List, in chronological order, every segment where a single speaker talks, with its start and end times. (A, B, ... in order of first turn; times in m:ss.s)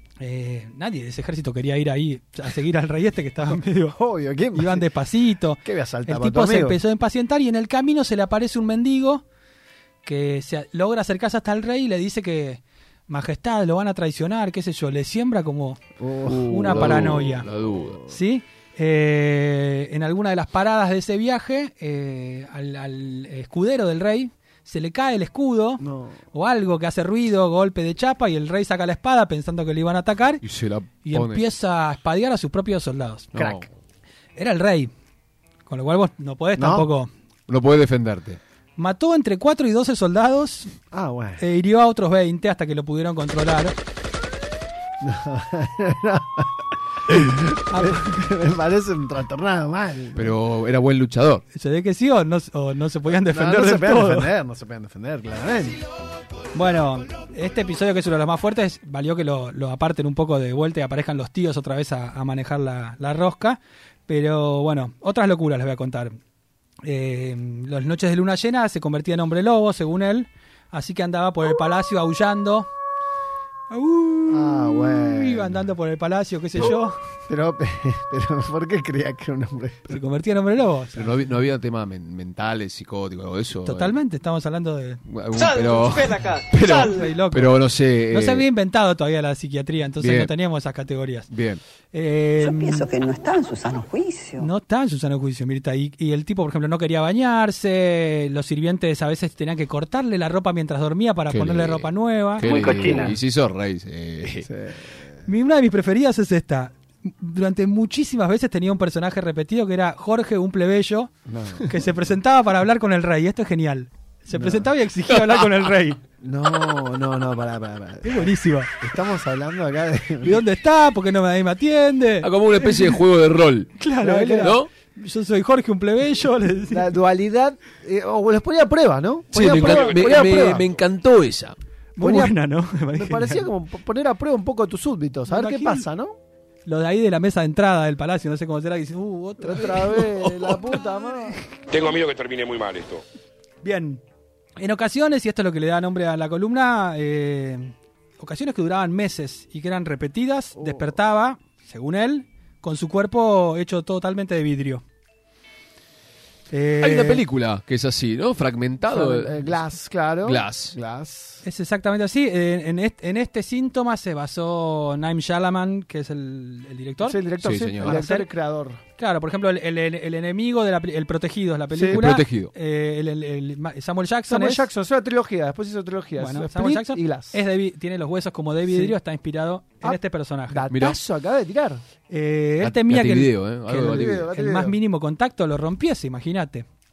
0:00.2-0:04.0 A
0:03.5-0:04.9 B
0:04.5-0:09.2 A
0:05.6-0:06.8 B
0:10.0-0:15.8 A
0:16.0-0:18.2 B
0:16.3-0:18.0 C
0:16.5-0:17.5 A
0:18.1-0:30.4 A
0:25.8-0:26.2 B
0:30.4-0:31.4 C
0:31.0-0:33.3 A
0:33.3-0:33.7 C
0:33.4-0:33.7 B
0:34.4-0:34.9 A
0:35.7-0:37.1 A
0:36.6-0:36.9 B
0:37.5-0:38.4 C
0:38.8-0:40.7 A
0:40.9-0:41.4 B
0:41.4-0:43.8 A
0:45.0-0:50.4 B
0:47.7-0:48.2 A
0:50.2-0:51.4 C
0:51.5-0:54.3 A
0:53.2-0:55.8 B
0:56.5-1:06.2 A
1:06.8-1:12.7 A
1:13.7-1:17.0 A
1:14.3-1:15.7 B
1:17.3-1:20.0 B
1:19.9-1:21.1 A
1:21.0-1:24.0 C
1:23.6-1:25.0 A
1:25.1-1:28.5 C
1:26.8-1:31.3 A
1:30.0-1:30.3 C
1:31.3-1:31.6 C
1:31.9-1:32.9 A
1:32.4-1:34.5 D
1:34.4-1:42.7 A
1:41.3-1:44.5 C
1:42.4-1:43.1 D
1:44.4-1:45.2 B
1:45.3-1:51.1 A
1:51.3-1:52.0 B
1:51.7-1:56.0 A
1:54.3-1:54.7 B
1:55.1-1:55.5 C
1:56.2-2:00.4 B
1:58.0-1:58.7 A
2:00.2-2:03.0 A
2:02.2-2:03.7 C
2:03.8-2:06.9 A
2:04.0-2:04.6 B
2:04.4-2:04.7 C
2:06.7-2:10.7 B
2:09.3-2:11.6 C
2:09.5-2:10.1 E
2:12.0-2:13.5 A
2:12.0-2:12.4 B
2:12.9-2:16.2 B
2:15.3-2:15.9 A
2:16.7-2:21.9 A
2:19.4-2:21.4 B
2:21.7-2:23.0 E
2:23.6-2:24.0 A
2:24.6-2:34.8 A
2:30.6-2:31.0 B
2:36.5-2:37.2 A
2:36.8-2:39.6 C
2:38.9-2:41.4 B
2:40.2-2:40.8 C
2:41.4-2:47.2 A
2:47.0-2:48.8 B
2:47.4-2:48.0 C
2:47.8-2:48.3 A
2:49.0-2:54.7 A
2:51.7-2:52.1 B
2:51.9-2:52.5 C
2:54.3-2:57.4 B
2:56.2-3:00.7 A
2:58.7-2:59.0 B
2:59.8-3:01.8 B
3:00.7-3:01.0 C
3:02.1-3:03.3 A
3:02.6-3:04.3 C
3:03.7-3:04.8 B
3:04.3-3:06.7 A